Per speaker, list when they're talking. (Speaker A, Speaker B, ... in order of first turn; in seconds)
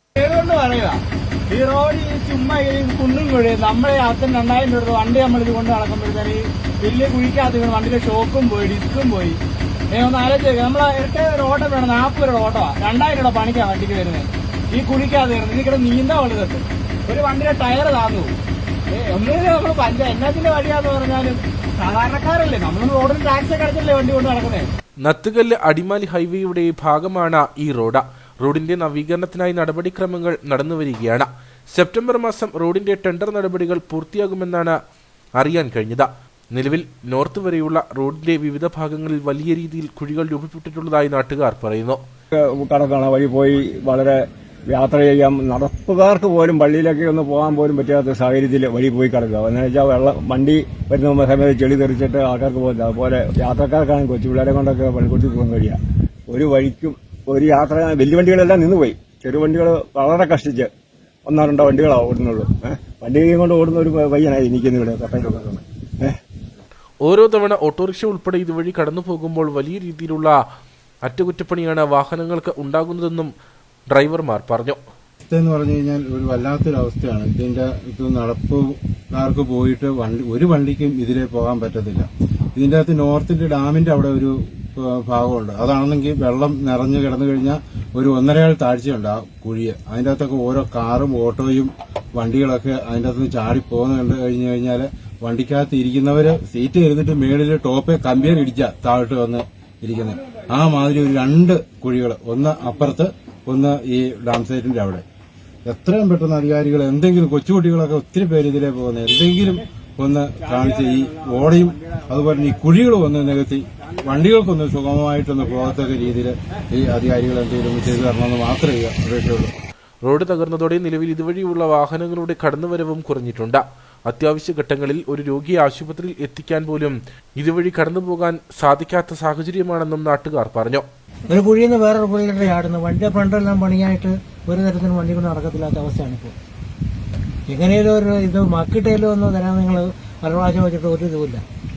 Speaker A: 0.2-9.4, 9.9-18.3, 18.9-24.7
Speaker B: 25.0-34.8, 35.4-42.0, 67.0-70.4, 71.0-73.3, 73.9-74.8, 120.0-130.8
Speaker C: 42.4-55.8, 56.3-60.7, 61.3-66.2
Speaker D: 75.2-105.0, 105.7-119.5
Speaker E: 131.3-136.3, 137.5-141.4